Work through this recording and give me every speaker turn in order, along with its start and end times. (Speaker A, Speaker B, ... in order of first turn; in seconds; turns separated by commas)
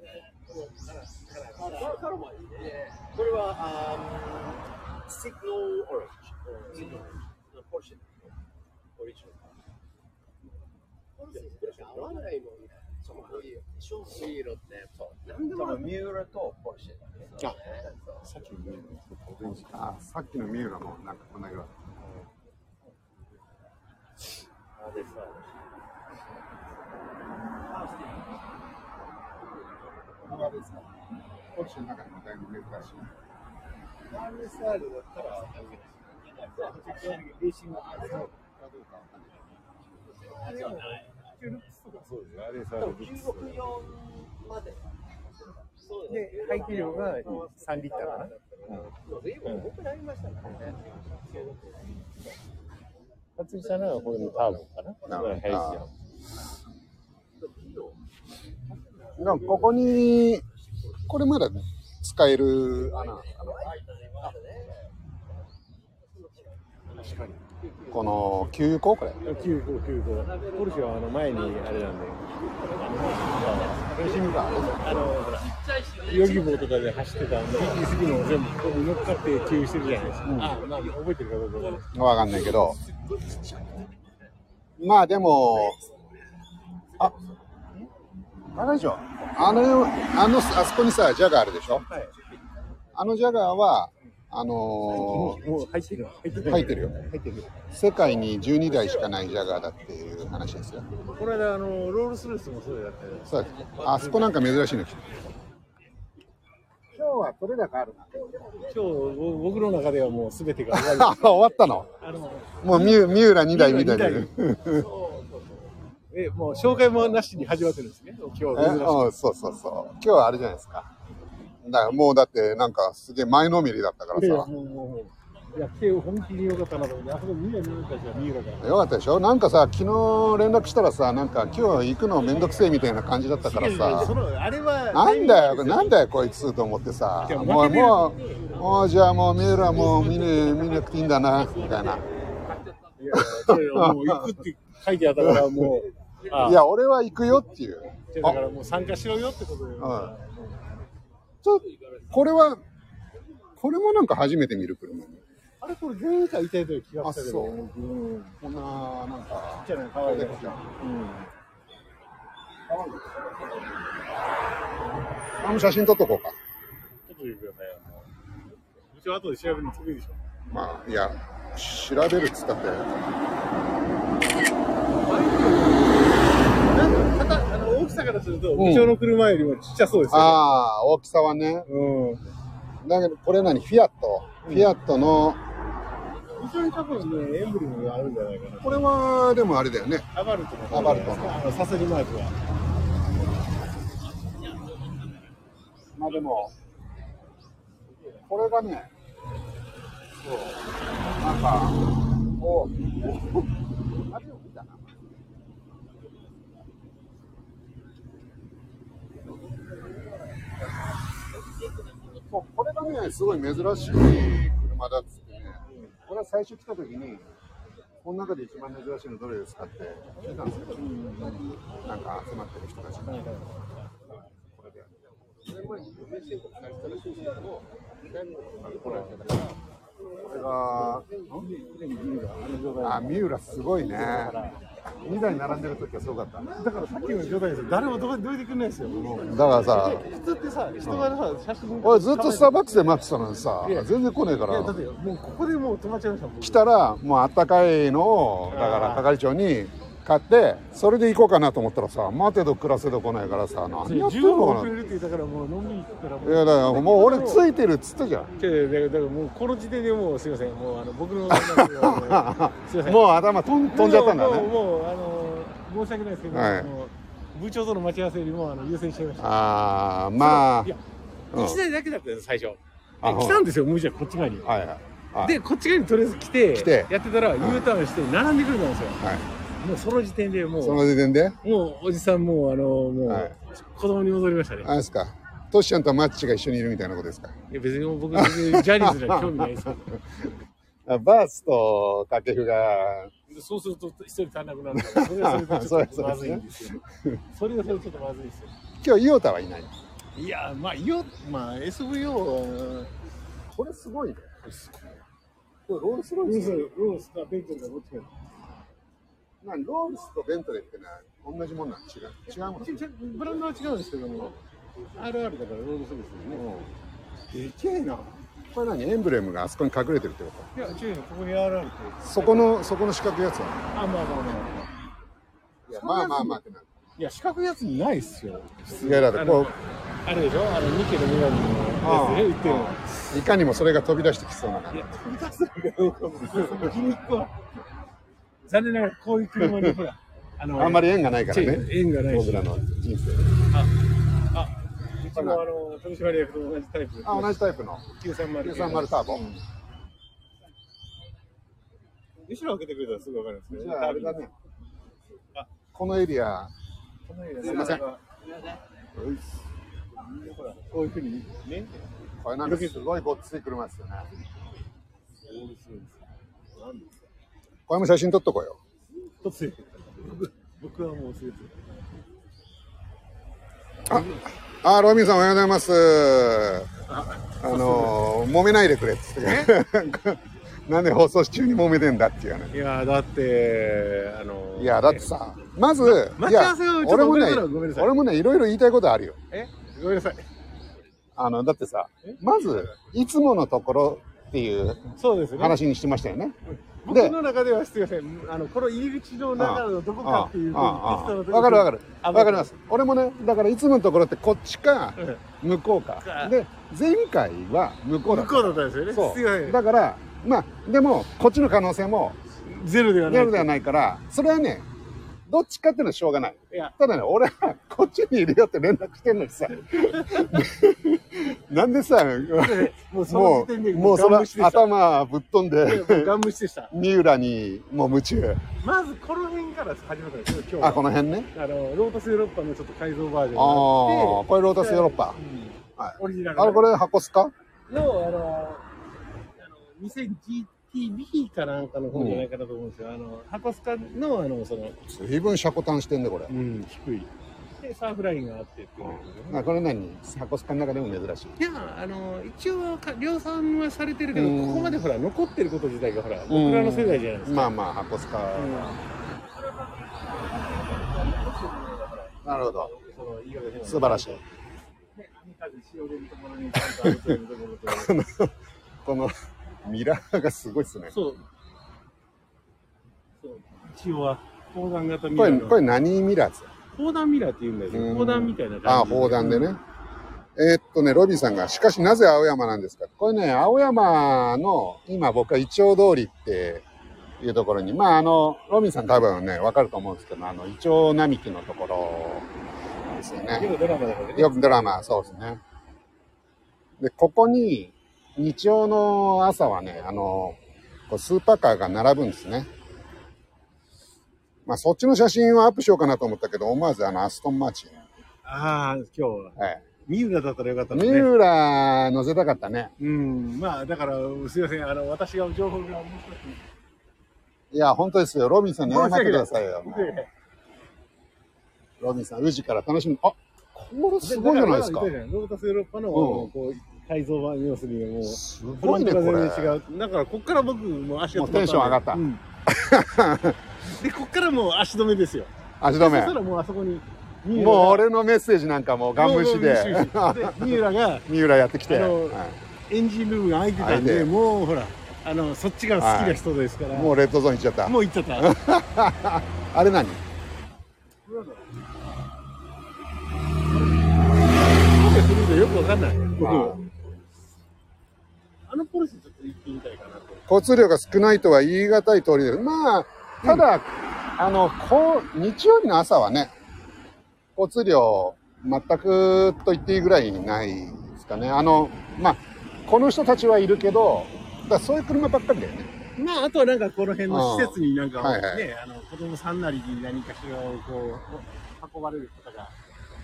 Speaker A: 0.5-2.0, Speaker B: 1.5-8.3, Speaker A: 6.5-7.0, Speaker B: 8.9-9.5, Speaker B: 11.2-18.2, Speaker A: 11.2-12.4, Speaker A: 15.3-16.0, Speaker A: 17.4-17.6, Speaker A: 18.2-19.8, Speaker C: 19.5-21.7, Speaker A: 24.8-25.4, Speaker B: 27.7-28.2, Speaker C: 30.2-30.9, Speaker C: 31.5-33.1, Speaker B: 34.1-38.3, Speaker A: 36.5-38.3, Speaker C: 38.6-39.8, Speaker B: 40.1-41.2, Speaker A: 40.2-43.6, Speaker B: 42.8-44.9, Speaker B: 45.7-51.8, Speaker A: 46.1-48.3, Speaker A: 49.4-49.7, Speaker A: 53.4-55.9, Speaker C: 55.0-55.8, Speaker B: 57.4-58.0, Speaker A: 59.0-59.7, Speaker C: 59.1-60.4, Speaker B: 59.6-61.0, Speaker C: 61.1-63.7, Speaker B: 62.7-64.9, Speaker B: 66.2-66.5, Speaker A: 66.9-67.4, Speaker C: 67.9-69.2, Speaker A: 69.2-81.9, Speaker B: 73.7-74.7, Speaker C: 74.0-75.1, Speaker C: 80.2-80.6, Speaker C: 81.9-82.8, Speaker B: 83.3-83.8, Speaker C: 84.8-85.8, Speaker C: 88.5-91.8, Speaker C: 92.9-95.4, Speaker A: 94.9-97.5, Speaker C: 96.4-97.0, Speaker C: 97.7-100.9, Speaker A: 101.0-104.3, Speaker C: 103.3-105.1, Speaker C: 106.9-108.3, Speaker A: 108.7-111.3, Speaker C: 110.7-111.9, Speaker A: 112.0-114.3, Speaker C: 112.6-114.9, Speaker B: 114.7-115.6, Speaker A: 116.1-119.1, Speaker C: 118.5-120.9, Speaker C: 121.6-124.5, Speaker A: 124.1-128.8, Speaker C: 128.6-134.2, Speaker A: 133.4-136.0, Speaker C: 134.9-142.0, Speaker A: 137.2-138.7, Speaker A: 143.0-146.6, Speaker C: 143.1-144.2, Speaker C: 145.2-145.7, Speaker C: 146.3-148.4, Speaker A: 148.1-150.7, Speaker C: 149.8-150.1, Speaker C: 151.4-152.6, Speaker C: 153.6-155.2, Speaker A: 155.6-158.3, Speaker C: 157.0-157.6, Speaker C: 158.4-160.7, Speaker A: 159.6-161.3, Speaker C: 162.7-163.2, Speaker C: 165.4-166.3, Speaker A: 167.1-168.1, Speaker A: 168.9-170.2, Speaker C: 170.5-173.0, Speaker A: 175.0-180.4, Speaker C: 178.5-178.9, Speaker C: 180.1-181.7, Speaker A: 181.7-182.2, Speaker C: 182.8-185.4, Speaker A: 184.4-184.7, Speaker A: 186.3-188.9, Speaker C: 188.6-190.1, Speaker A: 190.1-192.3, Speaker C: 190.7-191.4, Speaker C: 195.9-196.5, Speaker C: 198.3-198.9, Speaker C: 200.2-200.6, Speaker C: 201.2-203.4, Speaker C: 204.1-204.9, Speaker C: 212.3-217.2, Speaker A: 215.7-215.9, Speaker C: 218.0-221.1, Speaker A: 220.7-221.5, Speaker C: 221.8-223.2, Speaker A: 223.0-223.5, Speaker C: 224.5-224.9, Speaker B: 226.2-227.5, Speaker A: 228.7-229.3, Speaker C: 228.8-229.4, Speaker C: 230.2-231.4, Speaker A: 230.7-233.3, Speaker C: 232.8-234.4, Speaker A: 233.8-234.6, Speaker C: 235.0-236.6, Speaker A: 236.4-243.0, Speaker C: 239.1-240.1, Speaker C: 240.8-241.2, Speaker C: 241.8-244.8, Speaker A: 243.6-246.7, Speaker C: 246.4-254.7, Speaker A: 248.5-249.1, Speaker A: 253.8-257.4, Speaker C: 256.2-258.3, Speaker A: 258.4-263.0, Speaker C: 261.3-264.5, Speaker A: 263.7-269.3, Speaker C: 266.3-266.7, Speaker C: 269.2-270.7, Speaker A: 270.2-270.8, Speaker C: 271.3-271.6, Speaker A: 271.3-274.4, Speaker C: 273.0-273.4, Speaker C: 274.4-275.4, Speaker A: 275.2-279.0, Speaker C: 276.5-277.6, Speaker C: 279.0-279.3, Speaker A: 279.6-280.8, Speaker C: 280.6-281.4, Speaker A: 281.4-284.7, Speaker C: 283.1-283.3, Speaker C: 284.6-287.4, Speaker A: 287.5-290.0, Speaker C: 288.1-290.3, Speaker C: 290.9-293.1, Speaker A: 293.3-298.5, Speaker C: 294.7-297.2, Speaker C: 298.8-299.7, Speaker A: 300.1-302.9, Speaker C: 303.5-304.3, Speaker A: 304.4-305.0, Speaker C: 305.7-306.7, Speaker A: 306.2-308.1, Speaker C: 309.4-312.8, Speaker A: 312.5-314.4, Speaker A: 314.9-316.5, Speaker C: 316.3-316.7, Speaker A: 317.3-318.1, Speaker C: 318.5-320.5, Speaker A: 320.5-322.5, Speaker C: 322.0-323.6, Speaker A: 323.7-324.7, Speaker C: 325.7-326.7, Speaker A: 325.7-326.4, Speaker A: 327.0-333.1, Speaker C: 328.8-329.5, Speaker C: 331.8-335.0, Speaker A: 334.7-337.3, Speaker C: 336.2-336.8, Speaker A: 338.4-342.5, Speaker C: 339.4-339.8, Speaker C: 340.6-343.3, Speaker A: 344.3-349.4, Speaker C: 345.1-345.4, Speaker C: 347.0-347.9, Speaker C: 348.4-349.2, Speaker A: 352.2-354.2, Speaker C: 353.5-354.3, Speaker C: 355.7-356.5, Speaker A: 357.0-358.0, Speaker C: 357.4-357.8, Speaker C: 358.9-359.3, Speaker A: 360.0-361.9, Speaker C: 362.2-364.1, Speaker A: 362.4-362.9, Speaker A: 365.2-366.0, Speaker A: 366.6-367.0, Speaker C: 367.7-368.6, Speaker A: 369.0-371.7, Speaker C: 373.9-376.8, Speaker A: 373.9-374.2, Speaker A: 376.9-377.9, Speaker C: 377.4-382.5, Speaker A: 379.2-379.5, Speaker A: 382.5-385.2, Speaker C: 384.6-389.2, Speaker A: 385.8-387.9, Speaker A: 389.3-390.2, Speaker C: 391.1-396.4, Speaker A: 392.0-392.7, Speaker A: 395.0-395.6, Speaker A: 396.5-402.5, Speaker C: 396.9-397.1, Speaker C: 399.4-412.2, Speaker A: 406.0-406.3, Speaker A: 408.0-409.6, Speaker A: 412.4-413.5, Speaker C: 413.0-414.6, Speaker C: 415.3-426.1, Speaker A: 419.7-420.4, Speaker A: 422.4-424.7, Speaker A: 425.6-426.7, Speaker C: 426.7-428.4, Speaker A: 428.6-436.7, Speaker C: 430.6-431.3, Speaker C: 433.3-435.2, Speaker C: 435.8-437.3, Speaker A: 437.7-438.6, Speaker A: 439.4-444.8, Speaker C: 441.9-442.3, Speaker C: 444.9-446.3, Speaker A: 446.3-449.5, Speaker C: 448.8-451.4, Speaker A: 451.4-457.6, Speaker C: 454.1-454.8, Speaker C: 456.3-458.8, Speaker A: 458.3-458.8, Speaker A: 460.0-464.2, Speaker C: 462.2-462.7, Speaker C: 463.6-464.2, Speaker A: 464.9-468.0, Speaker C: 466.6-470.9, Speaker A: 470.9-471.2, Speaker A: 473.2-475.6, Speaker C: 475.1-476.5, Speaker A: 476.8-479.5, Speaker C: 477.7-479.6, Speaker C: 480.4-486.6, Speaker C: 487.2-492.3, Speaker C: 492.9-493.6, Speaker A: 493.3-495.1, Speaker C: 494.1-495.4, Speaker C: 496.8-502.5, Speaker C: 504.4-507.8, Speaker A: 508.2-509.3, Speaker C: 509.4-509.6, Speaker A: 509.9-511.1, Speaker C: 510.7-512.7, Speaker A: 512.8-516.4, Speaker C: 517.5-519.9, Speaker A: 518.6-520.1, Speaker C: 521.8-524.9, Speaker A: 524.0-532.2, Speaker C: 525.9-526.3, Speaker C: 528.0-529.6, Speaker C: 531.1-533.4, Speaker A: 533.7-537.9, Speaker C: 535.6-536.2, Speaker C: 537.3-542.4, Speaker A: 538.9-541.1, Speaker A: 541.6-546.9, Speaker C: 543.6-544.1, Speaker C: 545.8-550.0, Speaker A: 547.6-548.3, Speaker A: 551.0-551.5, Speaker A: 553.5-554.0, Speaker A: 554.5-556.6, Speaker C: 556.2-556.6, Speaker A: 558.5-560.2, Speaker C: 560.3-566.3, Speaker C: 567.3-575.7, Speaker A: 576.0-582.5, Speaker C: 577.1-578.5